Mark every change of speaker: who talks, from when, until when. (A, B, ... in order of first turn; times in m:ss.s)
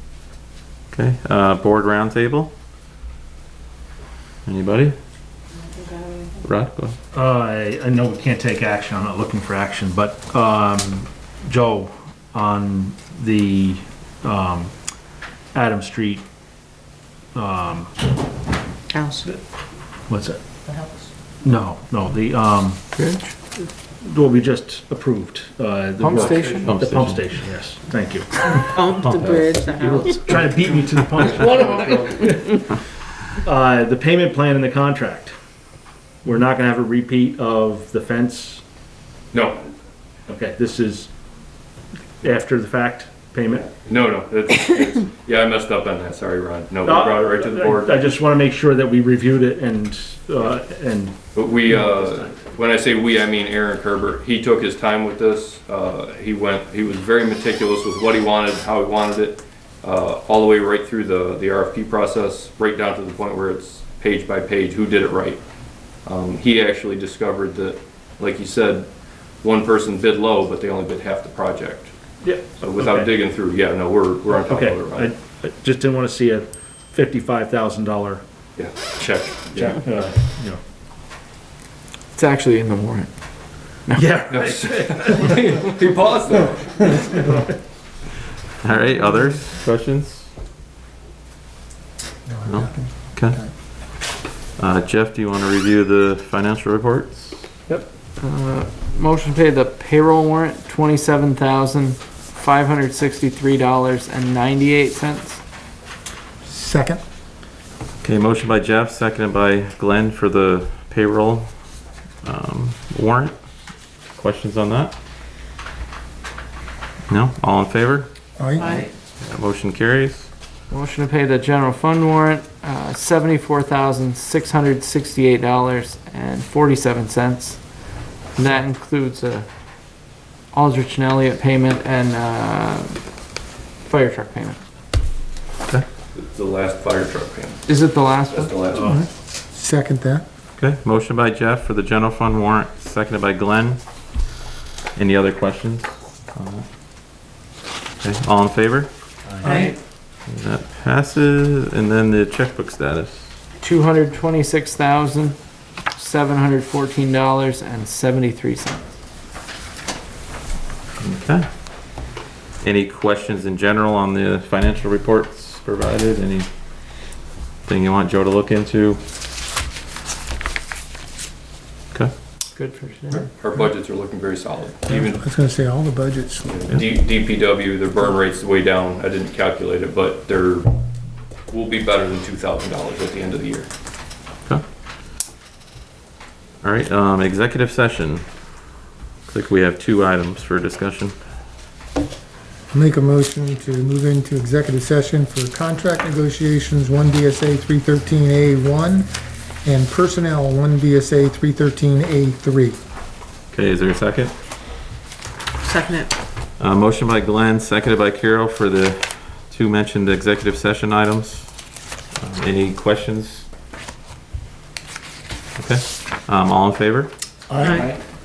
0:00.9-0:02.5 A
0:04.5-0:05.0 A
0:05.6-0:06.3 B
0:06.4-0:07.0 A
0:07.1-0:14.7 C
0:15.5-0:16.2 C
0:17.3-0:17.9 C
0:18.9-0:19.3 B
0:20.1-0:20.4 C
0:20.7-0:21.1 B
0:21.4-0:22.8 C
0:22.9-0:23.3 D
0:23.6-0:28.8 C
0:26.0-0:26.8 D
0:26.3-0:27.2 A
0:28.7-0:30.6 B
0:28.9-0:29.6 A
0:29.8-0:32.4 C
0:33.4-0:35.3 C
0:36.2-0:38.6 C
0:39.3-0:39.7 E
0:40.3-0:41.1 C
0:42.2-0:43.7 C
0:43.7-0:48.0 E
0:46.8-0:51.2 C
0:51.3-1:05.4 E
1:06.0-1:08.9 E
1:09.4-1:11.9 E
1:12.2-1:13.1 C
1:12.6-1:15.1 E
1:14.3-1:18.2 C
1:18.6-1:19.8 E
1:19.5-1:20.6 C
1:22.1-1:23.1 D
1:23.9-1:25.3 C
1:24.3-1:27.4 E
1:28.6-1:30.3 A
1:32.3-1:33.5 F
1:32.4-1:33.4 A
1:34.6-1:37.4 A
1:38.2-1:45.4 D
1:46.4-1:47.0 F
1:48.0-1:51.5 A
1:52.2-1:53.3 A
1:54.1-1:54.9 A
1:57.1-1:58.1 A
1:58.4-1:58.8 F
1:58.6-1:58.9 B
1:59.2-2:00.3 A
2:00.7-2:07.6 D
2:08.3-2:09.5 D
2:10.5-2:13.0 D
2:13.8-2:14.6 D
2:16.1-2:17.6 E
2:17.7-2:18.5 D
2:18.3-2:18.9 E
2:18.7-2:19.0 C
2:18.8-2:20.2 F
2:20.6-2:23.8 A
2:25.0-2:26.6 A
2:28.0-2:28.9 A
2:29.4-2:29.8 D
2:29.4-2:29.8 B
2:30.3-2:33.3 A
2:33.6-2:35.4 D
2:35.9-2:38.9 D
2:41.0-2:41.9 A
2:42.6-2:46.5 A
2:47.7-2:49.0 A
2:52.5-2:53.3 D
2:53.4-2:55.2 E
2:54.9-2:56.6 F
2:56.5-3:00.7 E
3:01.5-3:03.7 E
3:06.6-3:08.5 A
3:09.3-3:11.2 A
3:12.7-3:19.1 F
3:19.6-3:22.8 F
3:23.5-3:24.3 A
3:25.6-3:26.1 B
3:26.6-3:31.6 A
3:32.2-3:33.5 A
3:35.6-3:37.1 A
3:37.5-3:37.9 F
3:37.6-3:37.9 B